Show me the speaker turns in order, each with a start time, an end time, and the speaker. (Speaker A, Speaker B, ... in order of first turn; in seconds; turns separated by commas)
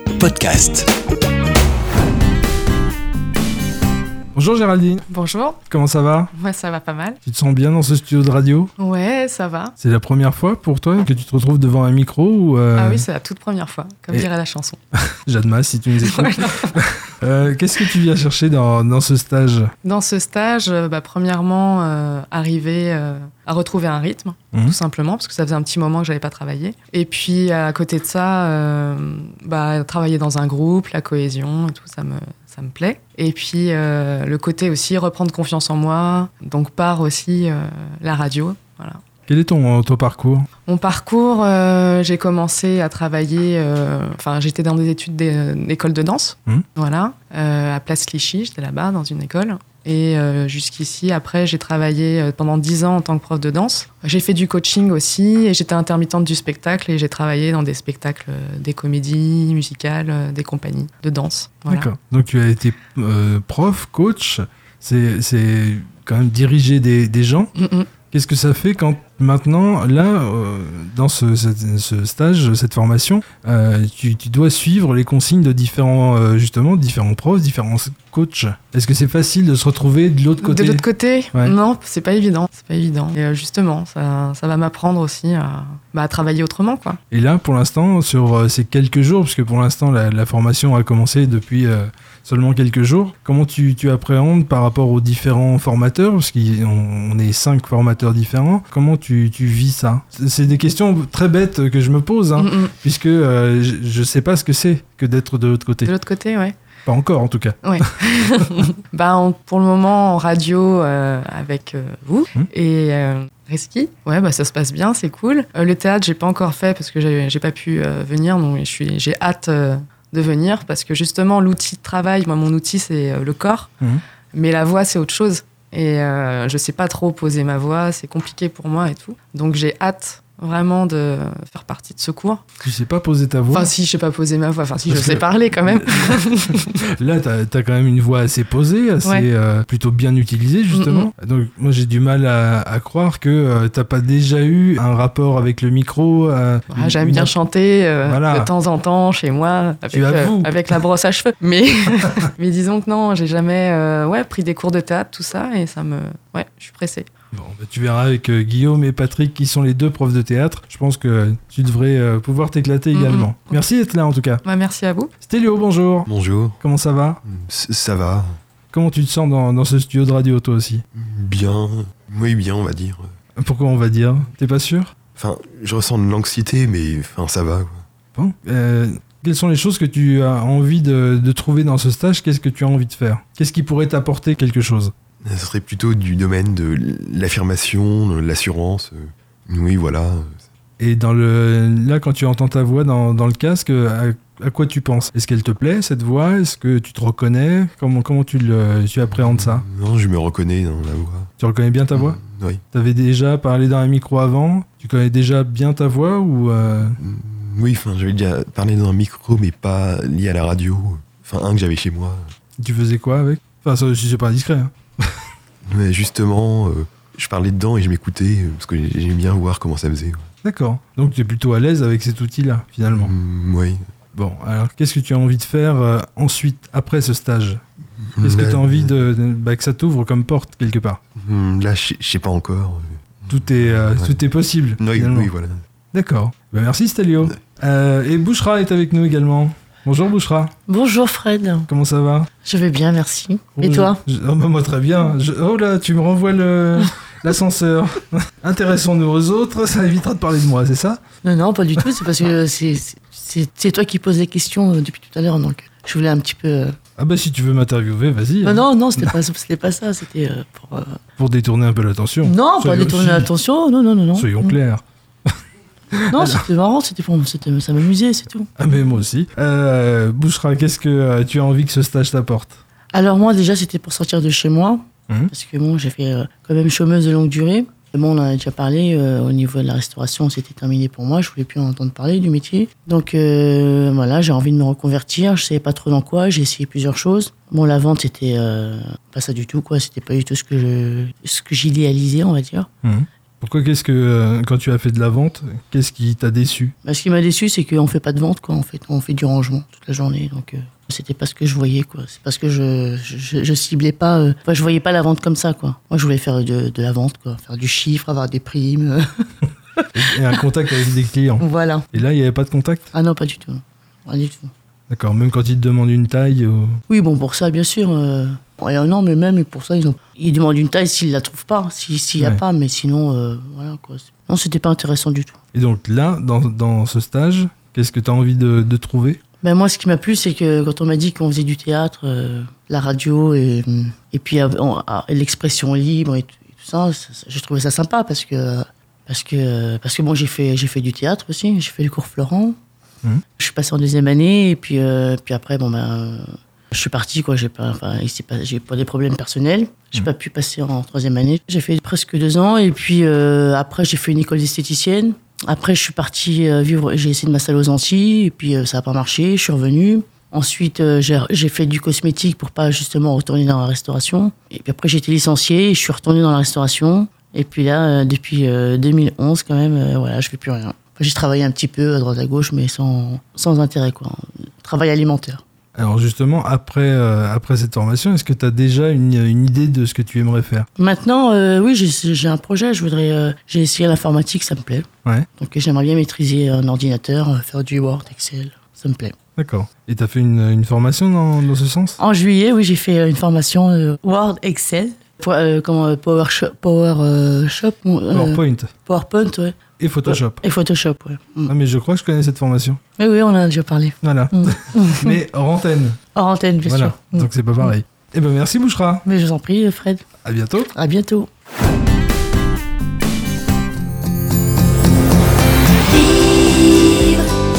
Speaker A: 0.3-0.8, Speaker A: 4.3-5.1, Speaker B: 5.1-5.6, Speaker A: 5.7-6.3, Speaker B: 6.3-7.2, Speaker A: 7.2-8.7, Speaker B: 8.8-9.7, Speaker A: 9.8-13.1, Speaker B: 12.8-14.8, Speaker A: 14.9-19.7, Speaker B: 16.0-16.8, Speaker B: 19.8-39.0, Speaker A: 24.5-24.8, Speaker A: 39.3-40.5, Speaker B: 40.6-61.9, Speaker A: 61.7-67.5, Speaker B: 67.6-67.9, Speaker A: 68.0-81.6, Speaker B: 80.4-87.0, Speaker A: 87.1-105.9, Speaker B: 102.4-102.8, Speaker B: 105.8-106.5, Speaker A: 106.8-108.0, Speaker B: 107.6-123.7, Speaker B: 124.3-132.4, Speaker A: 132.6-133.7, Speaker B: 133.5-136.8, Speaker A: 134.7-136.3, Speaker A: 136.9-147.3, Speaker B: 139.0-139.3, Speaker B: 140.7-141.1, Speaker B: 146.7-157.1, Speaker A: 148.0-148.5, Speaker A: 149.9-150.8, Speaker A: 157.3-164.4, Speaker B: 162.9-163.7, Speaker B: 164.4-165.1, Speaker A: 165.2-167.2, Speaker C: 166.1-166.6, Speaker C: 167.3-168.3, Speaker A: 168.7-170.8, Speaker C: 170.9-173.1, Speaker A: 173.3-174.9, Speaker C: 175.2-177.8, Speaker A: 178.1-184.9, Speaker C: 185.2-190.4, Speaker A: 190.8-199.6, Speaker C: 199.1-201.3, Speaker A: 201.4-207.0, Speaker C: 201.9-202.6, Speaker C: 207.0-212.2, Speaker A: 212.6-215.2, Speaker C: 215.7-220.2, Speaker A: 220.4-223.1, Speaker C: 222.9-223.8, Speaker A: 224.1-227.6, Speaker C: 228.0-228.9, Speaker A: 228.2-231.0, Speaker C: 231.2-234.2, Speaker A: 233.3-235.3, Speaker C: 234.8-235.6, Speaker A: 235.9-240.5, Speaker D: 240.7-241.7, Speaker A: 241.7-242.3, Speaker D: 242.4-244.0, Speaker A: 243.6-251.0, Speaker D: 251.2-256.7, Speaker A: 257.0-259.1, Speaker D: 258.4-261.0, Speaker A: 261.2-263.3, Speaker D: 262.2-264.6, Speaker A: 264.1-265.4, Speaker A: 265.9-266.4, Speaker D: 266.1-268.5, Speaker A: 268.6-272.6, Speaker D: 272.9-292.7, Speaker A: 292.8-296.7, Speaker D: 296.8-309.2, Speaker A: 309.9-312.9, Speaker D: 311.4-311.9, Speaker D: 312.9-314.5, Speaker A: 314.9-316.8, Speaker D: 316.9-325.4, Speaker A: 325.5-329.2, Speaker D: 329.4-342.6, Speaker D: 343.4-375.4, Speaker A: 375.7-380.7, Speaker D: 380.8-389.1, Speaker A: 389.4-392.0, Speaker D: 392.0-401.5, Speaker A: 398.1-398.7, Speaker A: 399.8-400.4, Speaker A: 401.5-402.8, Speaker D: 403.0-405.2, Speaker A: 404.0-406.0, Speaker D: 406.1-407.7, Speaker A: 406.6-409.0, Speaker D: 409.0-410.0, Speaker A: 410.2-410.7, Speaker D: 410.7-411.3, Speaker D: 416.3-416.9